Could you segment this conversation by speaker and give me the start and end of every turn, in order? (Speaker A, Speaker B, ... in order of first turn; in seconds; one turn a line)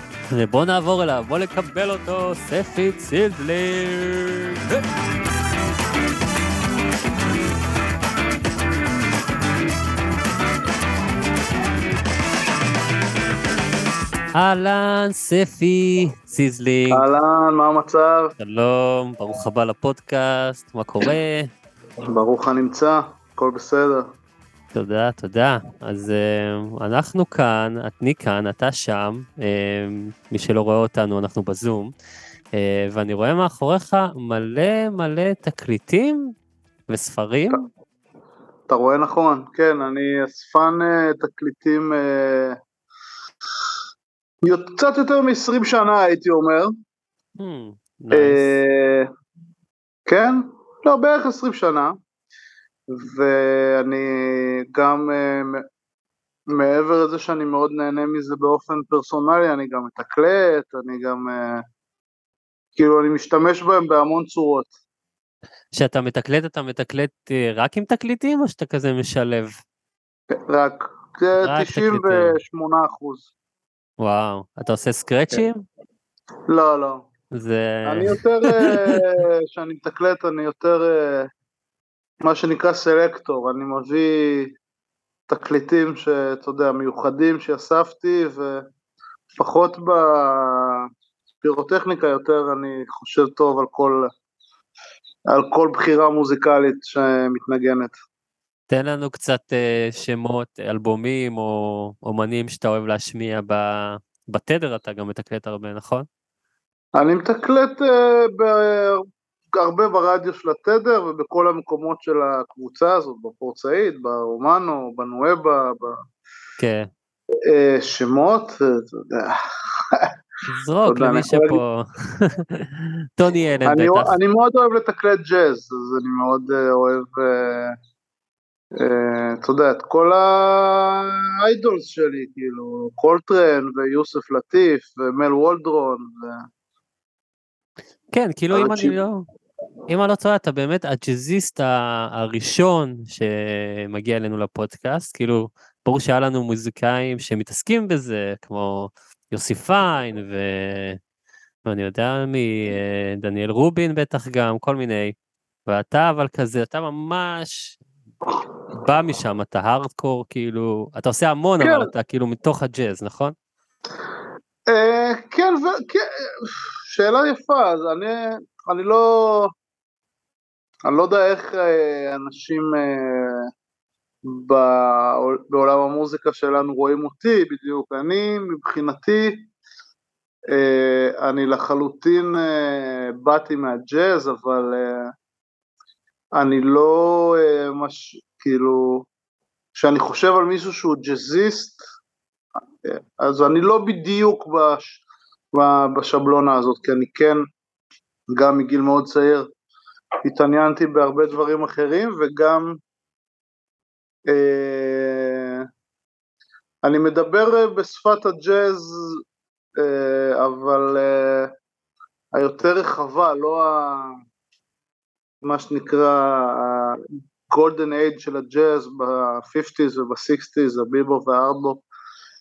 Speaker A: 0.3-4.8
Speaker A: 14.3-17.1
Speaker B: 16.9-18.3
Speaker A: 18.4-21.5
Speaker B: 22.1-24.1
Speaker A: 24.7-31.9
Speaker A: 32.5-36.3
Speaker A: 36.9-37.6
Speaker B: 38.7-42.6
Speaker B: 44.4-46.7
Speaker A: 47.4-48.5
Speaker B: 48.1-49.1
Speaker B: 50.1-52.0
Speaker B: 52.9-55.6
Speaker B: 56.5-61.6
Speaker B: 62.8-64.7
Speaker A: 65.7-69.5
Speaker B: 70.5-73.3
Speaker A: 71.4-72.4
Speaker A: 74.0-75.6
Speaker B: 76.5-77.0
Speaker A: 77.3-79.0
Speaker B: 77.8-81.3
Speaker B: 82.2-84.5
Speaker B: 85.3-88.7
Speaker B: 89.4-90.9
Speaker B: 91.4-94.1
Speaker B: 95.3-97.9
Speaker A: 98.7-106.1
Speaker B: 107.0-109.0
Speaker B: 109.5-116.0
Speaker A: 116.6-116.9
Speaker B: 117.5-119.4
Speaker A: 120.5-124.1
Speaker B: 120.9-121.6
Speaker B: 123.7-127.8
Speaker B: 128.8-136.5
Speaker A: 138.1-139.2
Speaker B: 138.5-139.0
Speaker A: 139.9-151.0
Speaker A: 151.7-155.1
Speaker A: 155.7-157.8
Speaker A: 158.8-163.3
Speaker B: 161.6-161.9
Speaker B: 164.7-169.5
Speaker B: 170.9-173.5
Speaker B: 174.3-179.5
Speaker B: 180.5-185.1
Speaker B: 186.4-189.1
Speaker B: 189.8-191.8
Speaker B: 192.8-195.0
Speaker B: 195.5-197.4
Speaker B: 198.3-199.5
Speaker B: 200.2-202.8
Speaker B: 204.3-205.7
Speaker B: 206.8-209.2
Speaker B: 209.8-211.5
Speaker B: 212.3-214.1
Speaker B: 215.4-221.8